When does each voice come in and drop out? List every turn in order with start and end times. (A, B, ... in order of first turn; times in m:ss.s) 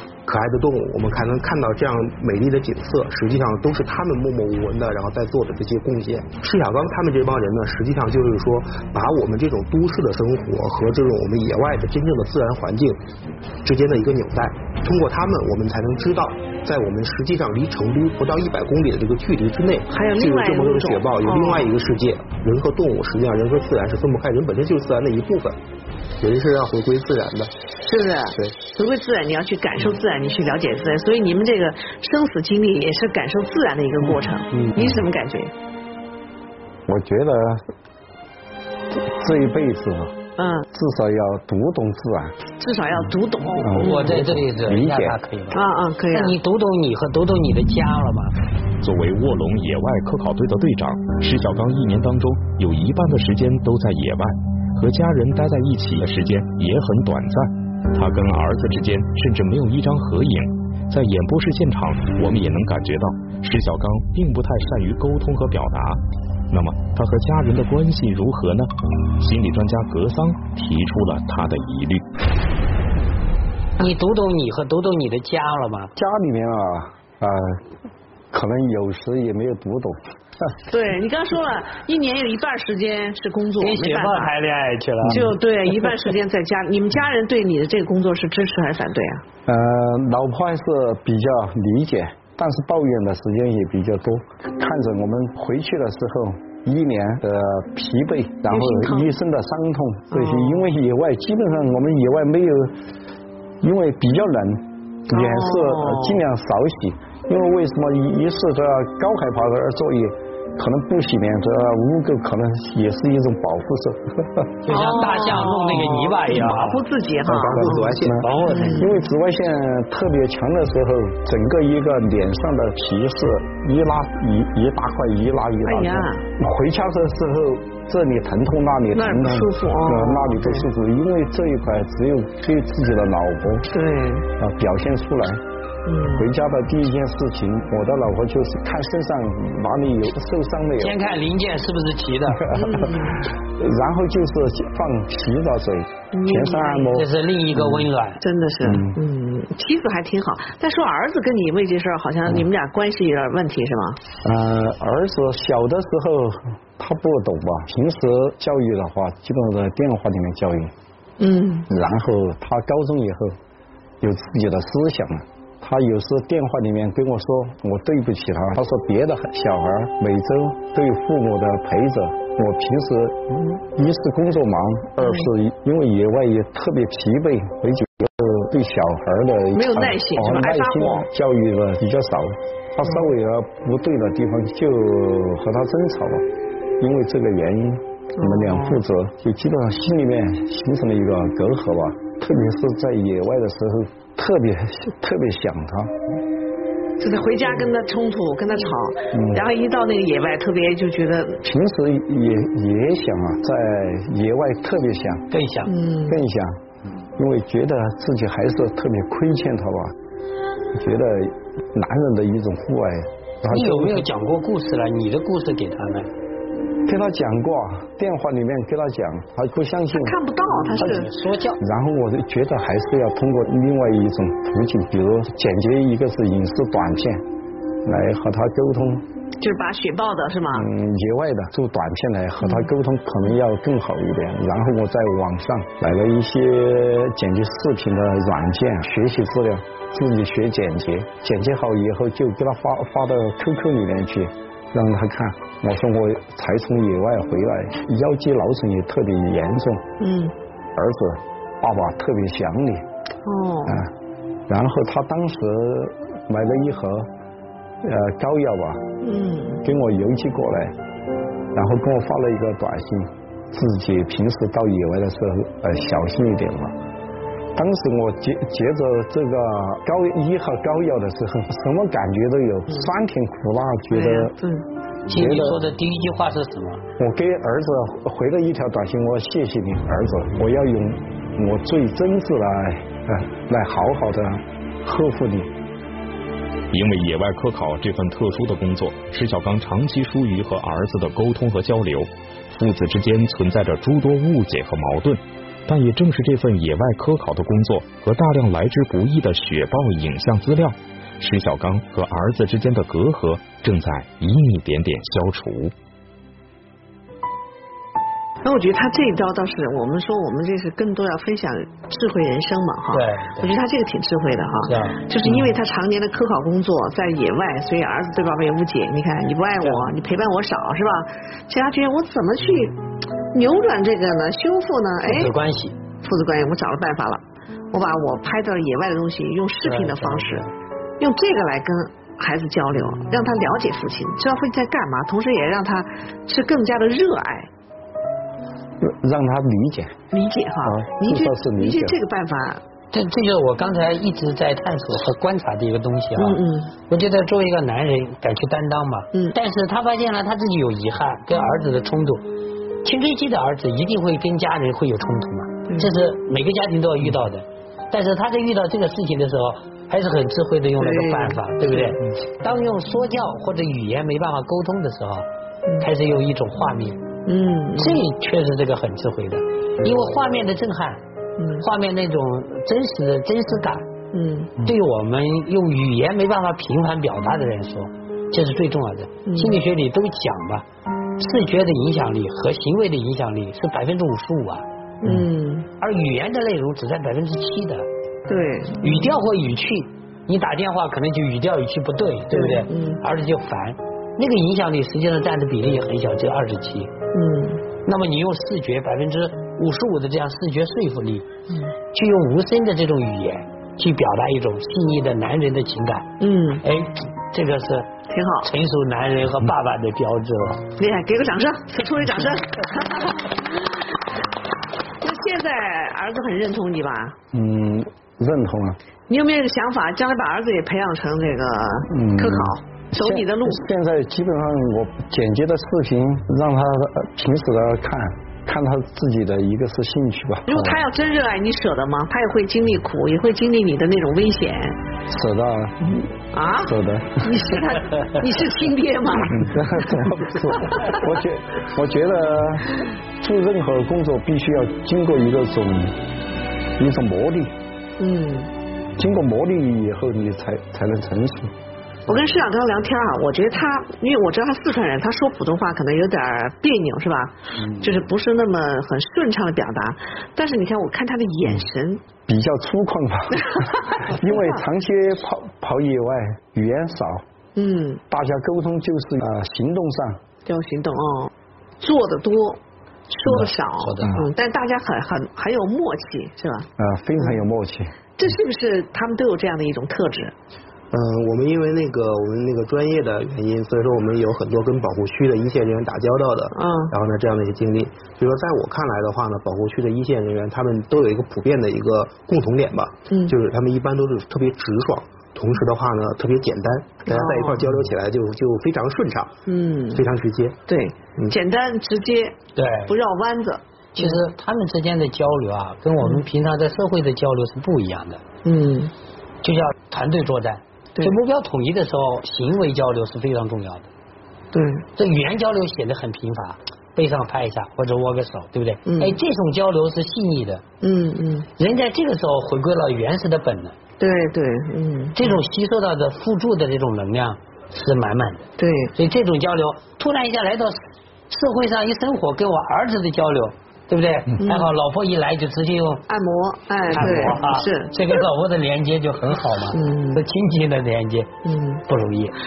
0:00.2-0:13.0 A
0:13.6-0:25.6 A
0:19.9-0:21.7 B
0:26.2-0:27.5 A
0:27.8-0:35.5 B
0:36.9-0:37.6 C
0:38.9-0:40.1 C
0:40.4-0:40.7 B
0:40.7-0:42.3 C
0:42.6-0:44.1 B
0:43.6-0:45.2 C
0:43.8-0:48.4 D
0:45.5-0:46.3 B
0:48.8-1:12.0 E
1:13.8-1:15.9 D
1:15.9-1:17.6 C
1:18.3-1:20.0 C
1:20.7-1:24.3 B
1:23.6-1:25.3 D
1:25.1-1:29.2 B
1:29.4-1:42.8 C
1:38.5-1:39.2 B
1:40.1-1:40.7 B
1:43.6-1:54.5 C
1:45.1-1:46.2 B
1:54.6-1:56.8 D
1:54.7-1:59.0 B
1:57.2-2:13.7 C
1:57.5-1:58.1 A
1:58.2-1:58.9 D
2:05.6-2:06.2 B
2:08.9-2:10.7 B
2:13.7-2:14.3 B
2:14.4-2:15.4 C
2:15.8-2:16.3 B
2:16.2-2:21.0 C
2:20.8-2:22.4 D
2:22.4-2:27.9 C
2:22.5-2:23.2 B
2:26.1-2:26.9 B
2:26.9-2:28.2 D
2:28.2-2:34.0 B
2:28.6-2:29.0 C
2:34.2-2:40.7 C
2:41.2-2:41.7 B
2:41.7-2:43.4 C
2:44.0-3:06.2 C
2:55.0-2:55.3 B
2:59.5-3:01.1 B
3:06.8-3:15.9 C
3:08.2-3:08.8 B
3:17.0-3:21.4 B
3:19.1-3:19.4 C
3:21.4-3:25.3 C
3:25.3-3:25.7 D
3:25.7-3:26.2 B
3:26.1-3:26.6 C
3:27.2-3:29.9 C
3:30.7-3:34.1 C
3:33.5-3:36.1 D
3:36.8-3:40.2 C
3:39.9-3:41.1 B
3:40.8-3:41.6 D
3:40.8-3:41.0 C
3:41.6-3:47.2 C
3:47.8-3:49.0 C
3:49.4-3:50.7 B
3:50.5-4:09.8 C
3:52.4-3:52.7 B
4:10.0-4:10.3 B
4:10.8-4:12.8 C
4:13.2-4:13.8 B
4:13.6-4:13.9 C
4:14.5-4:17.1 C
4:17.8-4:18.8 C
4:19.0-4:19.6 B
4:19.6-4:20.7 C
4:21.5-4:26.7 C
4:27.5-4:34.3 C
4:33.9-4:34.6 B
4:35.1-4:36.8 D
4:35.1-4:35.6 C
4:37.0-4:45.5 C
4:46.7-5:05.7 E
5:08.4-5:22.8 B
5:12.9-5:13.5 D
5:14.6-5:15.5 D
5:19.6-5:19.9 D
5:23.3-5:25.3 B
5:25.0-5:25.8 D
5:26.0-5:30.5 B
5:29.6-5:30.5 D
5:31.0-5:37.5 B
5:38.8-5:40.0 C
5:40.1-5:42.6 B
5:40.6-5:42.0 C
5:42.9-5:52.2 D
5:46.2-5:46.7 B
5:52.8-6:05.2 D
6:00.8-6:02.0 B
6:05.8-6:07.0 D
6:07.2-6:08.0 B
6:07.8-6:11.0 D
6:11.4-6:11.6 B
6:11.6-6:13.9 D
6:14.1-6:14.5 B
6:14.6-6:20.6 D
6:19.2-6:19.6 B
6:21.2-6:24.6 D
6:25.0-6:25.7 B
6:25.8-6:27.9 D
6:28.3-6:29.1 B
6:28.8-6:36.9 D
6:32.3-6:33.0 B
6:37.1-6:37.6 B
6:37.8-6:41.2 D
6:41.9-6:46.1 D
6:46.2-6:46.6 B
6:46.6-6:47.9 D
6:48.1-6:48.5 B
6:48.4-6:50.6 D
6:50.8-6:53.4 B
6:55.0-6:57.2 B
6:57.3-6:58.8 C
6:59.1-7:03.6 B
7:01.9-7:10.8 C
7:10.4-7:14.8 B
7:15.1-7:17.4 C
7:16.3-7:21.0 B
7:19.3-7:26.0 C
7:26.8-7:27.5 C
7:28.0-7:28.5 B
7:29.0-7:31.5 C
7:32.1-7:42.0 B
7:42.3-7:47.2 C
7:43.4-7:44.5 B
7:47.6-7:48.0 B
7:48.1-7:50.2 C
7:50.4-7:57.4 B
7:53.3-7:54.1 D
7:56.8-7:57.9 C
7:58.2-8:00.3 B
8:00.9-8:19.4 A
8:06.5-8:06.9 B
8:17.1-8:17.6 B
8:19.5-8:20.0 B
8:19.9-8:20.6 A
8:20.7-8:24.2 B
8:22.6-8:22.9 D
8:24.0-8:28.2 D
8:28.4-8:28.9 B
8:29.4-8:33.9 D
8:34.5-8:34.8 B
8:35.0-8:40.6 D
8:38.8-8:39.2 B
8:40.8-8:41.5 B
8:41.6-8:43.8 D
8:44.0-8:45.4 B
8:45.2-8:50.8 D
8:48.6-8:48.9 B
8:51.3-8:56.0 D
8:54.4-8:54.7 B
8:56.1-8:57.9 B
8:56.9-9:01.3 D
8:59.7-9:00.2 B
9:01.4-9:01.8 B
9:01.9-9:02.3 D